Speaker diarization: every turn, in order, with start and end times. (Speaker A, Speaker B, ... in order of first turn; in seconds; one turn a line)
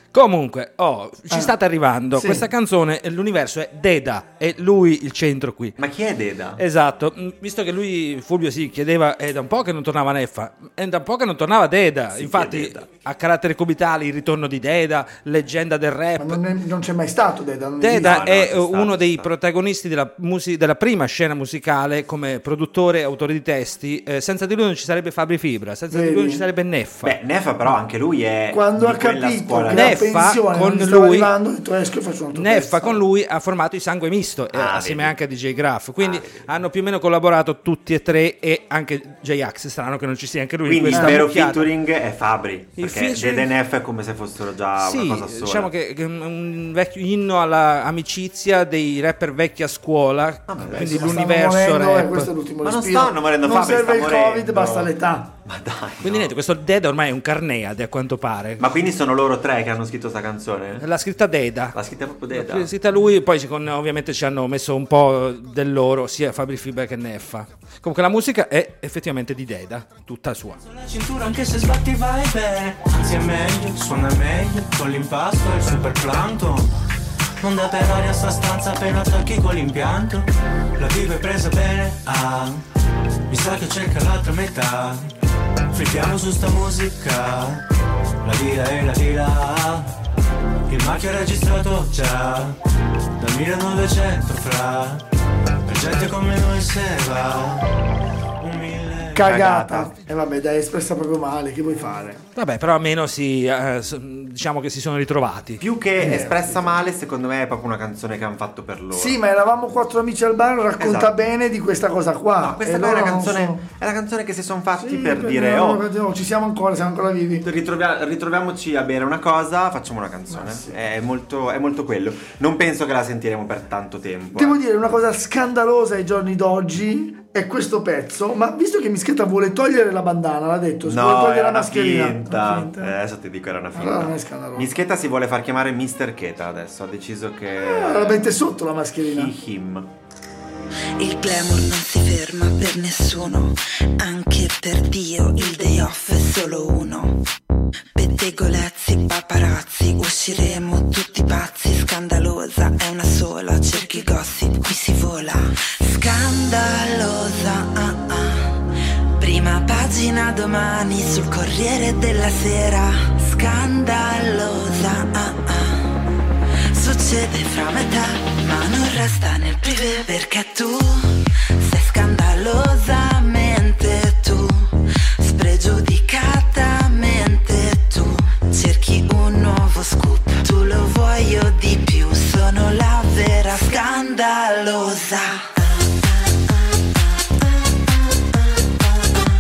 Speaker A: 0.1-5.8
Speaker B: 2.2-2.4
Speaker C: 5.8-6.6
Speaker A: 6.6-16.4
Speaker C: 12.2-12.9
Speaker B: 16.2-18.2
Speaker A: 17.8-27.2
Speaker C: 17.9-19.3
Speaker B: 25.9-26.4
Speaker C: 27.0-30.0
Speaker B: 28.5-33.0
Speaker A: 29.7-31.3
Speaker A: 32.3-41.7
Speaker C: 34.5-35.2
Speaker C: 36.0-36.5
Speaker C: 40.6-45.7
Speaker B: 40.9-41.2
Speaker A: 42.8-43.5
Speaker A: 44.8-52.3
Speaker C: 50.5-51.2
Speaker B: 50.7-55.3
Speaker C: 52.6-54.9
Speaker C: 55.5-56.3
Speaker A: 56.0-58.7
Speaker C: 58.6-60.9
Speaker A: 60.8-61.8
Speaker C: 61.8-62.7
Speaker A: 62.3-70.6
Speaker D: 70.7-76.7
Speaker D: 77.4-82.6
Speaker D: 83.3-85.1
Speaker D: 85.7-87.7
Speaker D: 88.2-89.9
Speaker D: 90.7-92.6
Speaker D: 93.2-95.0
Speaker D: 95.7-97.7
Speaker D: 98.4-99.3
Speaker B: 99.1-102.2
Speaker C: 99.2-99.9
Speaker A: 102.4-105.6
Speaker C: 105.6-109.2
Speaker B: 106.0-106.9
Speaker B: 108.9-113.6
Speaker C: 110.8-111.2
Speaker C: 112.4-115.8
Speaker B: 114.8-117.5
Speaker C: 117.4-124.6
Speaker B: 120.3-120.8
Speaker B: 124.3-132.9
Speaker C: 130.8-138.4
Speaker B: 133.8-134.7
Speaker B: 137.6-139.3
Speaker C: 139.0-139.9
Speaker E: 141.0-147.2
Speaker E: 148.0-158.6
Speaker E: 159.2-166.0
Speaker E: 166.7-186.6